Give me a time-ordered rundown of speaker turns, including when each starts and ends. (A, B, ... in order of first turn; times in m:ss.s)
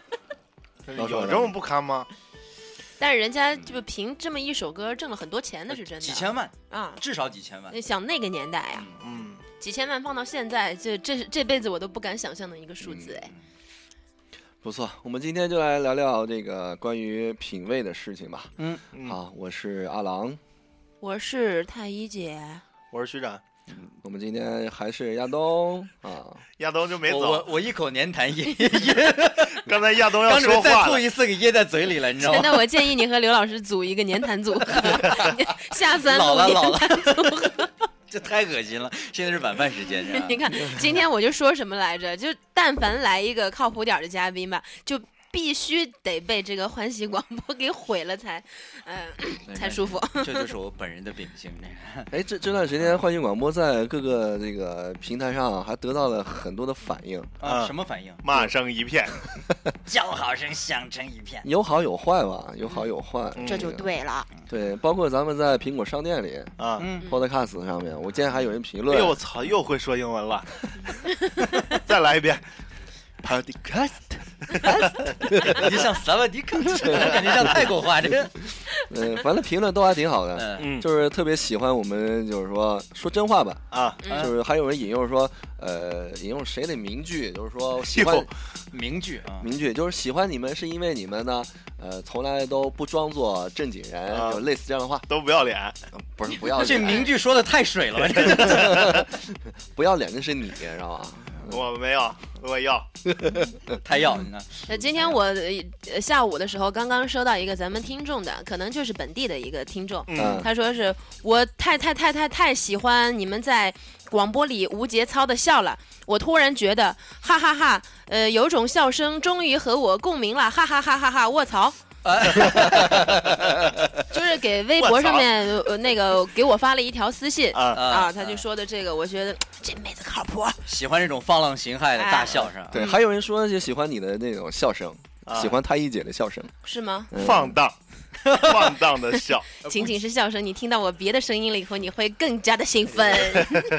0:00.8-0:02.1 A
0:01.0-0:01.6 B
0:03.0-0:07.0 C
0:06.0-0:07.7 D
0:07.7-0:08.9 C
0:09.0-0:09.4 A
0:09.6-0:13.3 C
0:12.8-0:13.1 B
0:14.6-0:18.5 B
0:18.6-0:18.8 D
0:19.0-0:20.4 B
0:21.0-0:22.6 C
0:22.9-0:23.4 A
0:24.0-0:26.4 B
0:26.6-0:27.5 A
0:27.0-0:32.6 D
0:29.5-0:31.0 A
0:32.2-0:37.7 C
0:34.8-0:35.2 D
0:36.0-0:37.4 D
0:38.1-0:40.4 D
0:40.1-0:50.5 C
0:49.5-0:52.1 D
0:52.1-0:57.3 B
0:57.4-0:58.2 D
0:57.4-0:59.2 A
0:59.8-1:01.5 D
1:01.4-1:03.9 B
1:03.4-1:03.7 A
1:03.4-1:04.2 C
1:04.5-1:09.2 B
1:06.6-1:06.9 A
1:06.8-1:07.0 D
1:08.9-1:10.5 A
1:11.6-1:12.4 A
1:13.2-1:14.2 B
1:14.6-1:18.3 D
1:15.3-1:15.8 B
1:16.8-1:23.6 B
1:20.4-1:20.7 D
1:20.6-1:20.8 A
1:23.7-1:24.0 A
1:24.0-1:24.3 C
1:24.1-1:28.3 B
1:27.9-1:28.3 A
1:28.7-1:29.5 D
1:29.4-1:35.1 B
1:34.1-1:34.4 A
1:35.1-1:35.8 A
1:36.0-1:37.1 B
1:36.4-1:39.1 D
1:38.2-1:39.1 B
1:39.7-1:41.6 B
1:41.5-1:42.9 A
1:43.8-1:44.6 D
1:44.7-2:01.8 C
1:50.1-1:50.5 A
1:50.1-1:50.5 B
2:02.0-2:03.2 D
2:02.5-2:03.7 B
2:04.1-2:10.6 C
2:04.8-2:05.3 A
2:07.5-2:07.8 A
2:07.7-2:08.4 D
2:10.7-2:12.8 D
2:12.0-2:13.0 C
2:12.7-2:16.5 B
2:15.3-2:15.5 A
2:16.6-2:17.1 C
2:17.1-2:17.6 B
2:17.1-2:17.8 A
2:18.2-2:18.6 D
2:18.3-2:19.5 A
2:19.6-2:23.7 C
2:19.6-2:19.9 D
2:23.4-2:23.6 A